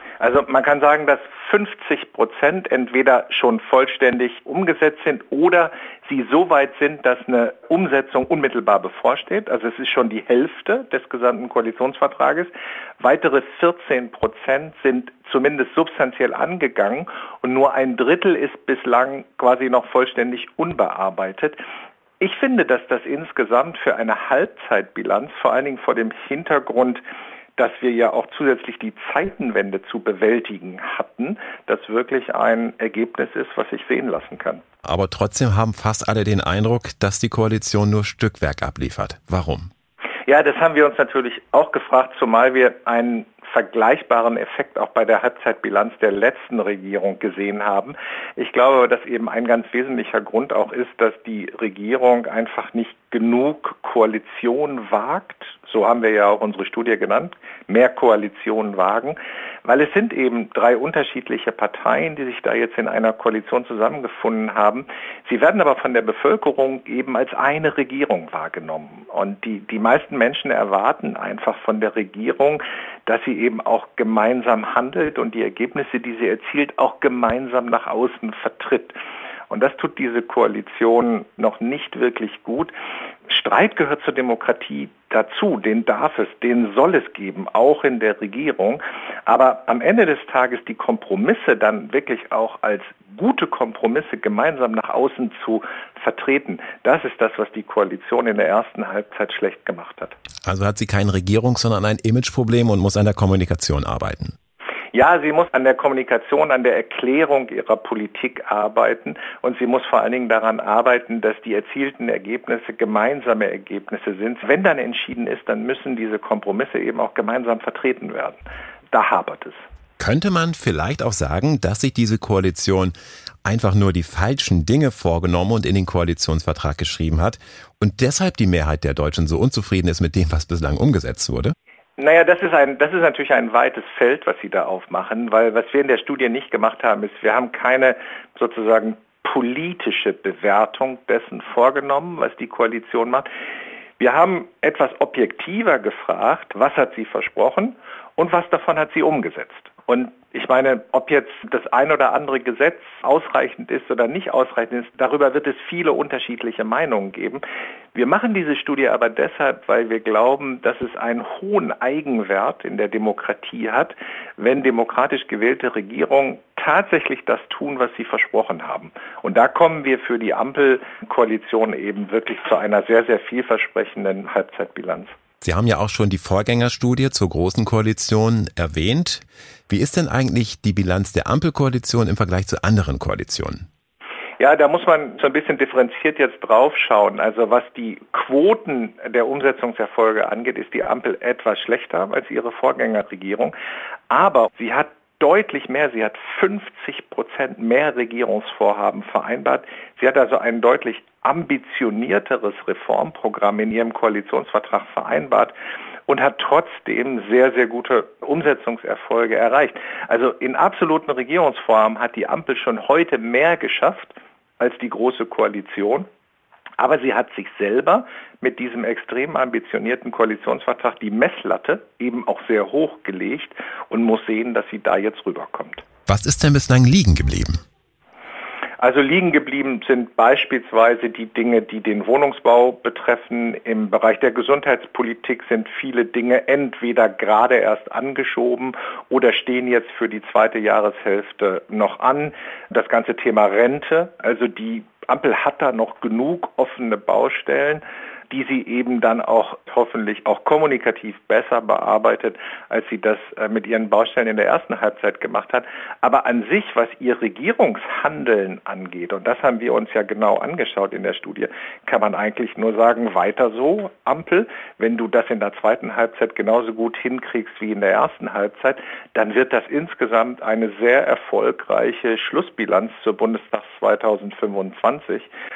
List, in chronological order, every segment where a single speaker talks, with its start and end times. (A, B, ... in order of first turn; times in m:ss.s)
0:00.2-0:21.6 A
0:22.2-0:27.0 A
0:27.6-0:34.6 A
0:34.8-0:39.7 B
0:40.3-1:19.0 A
1:19.5-1:22.7 A
1:23.3-1:40.2 A
1:40.4-1:44.4 B
1:44.9-1:58.4 A
1:58.9-1:59.6 A
2:00.0-2:11.6 B
2:12.0-2:23.3 A
2:24.0-2:37.4 A
2:38.0-2:55.1 A
2:55.4-3:03.7 B
3:04.4-3:13.5 A
3:14.1-3:25.5 A
3:26.1-3:36.1 A
3:36.8-3:45.8 A
3:46.1-3:47.6 B
3:48.8-4:35.3 A